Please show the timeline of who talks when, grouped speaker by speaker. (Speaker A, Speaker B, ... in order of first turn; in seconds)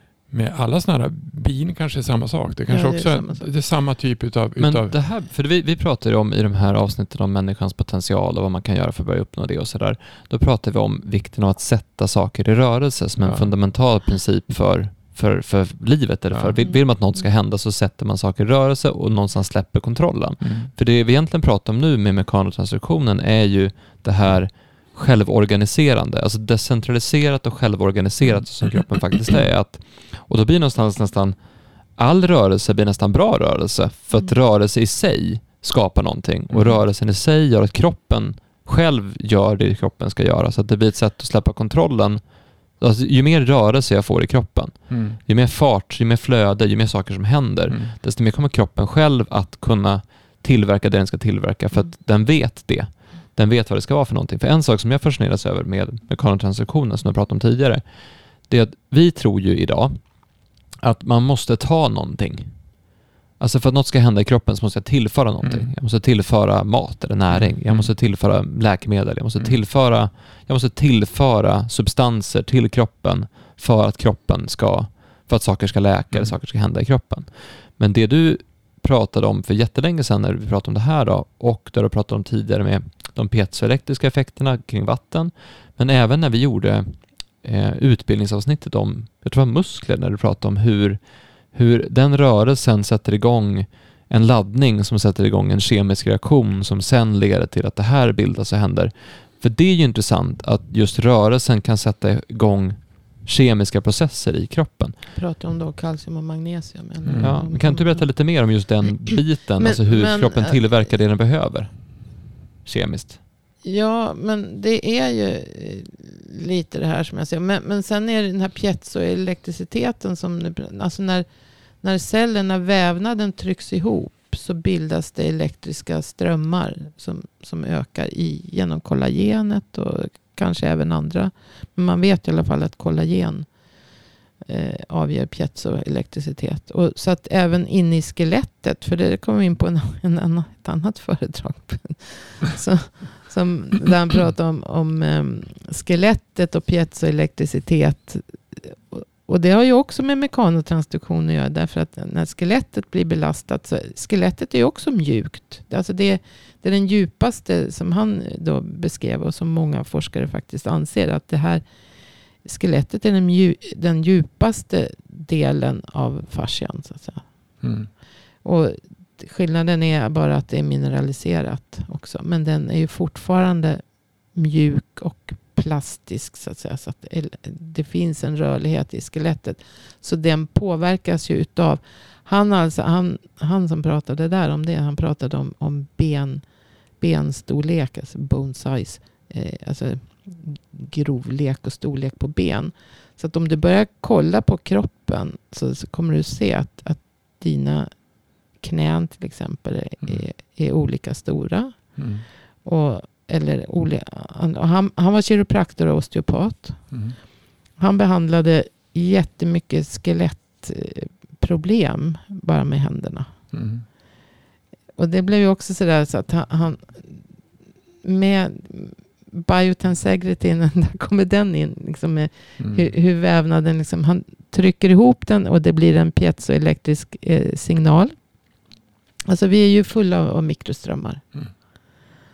Speaker A: 0.3-4.9, 13.2-13.5, 16.3-16.6, 20.4-20.7, 36.5-36.8, 44.9-45.2, 65.4-65.7, 67.3-67.9, 107.1-107.4, 167.6-167.9, 202.0-202.3, 206.9-207.2, 213.5-213.8, 222.6-222.9
Speaker B: 2.7-3.5, 105.2-108.1, 109.6-110.6, 113.6-121.2, 121.8-133.5, 134.4-161.6, 162.4-167.3, 168.4-186.4, 187.0-197.9, 198.6-202.0, 202.6-206.9, 207.8-213.3, 215.0-217.2, 218.0-228.2, 229.3-231.2
Speaker C: 4.6-31.4, 32.0-42.2, 42.8-57.8, 58.5-60.0, 60.8-62.5, 63.4-91.0, 91.5-105.0, 107.2-111.7, 112.7-113.2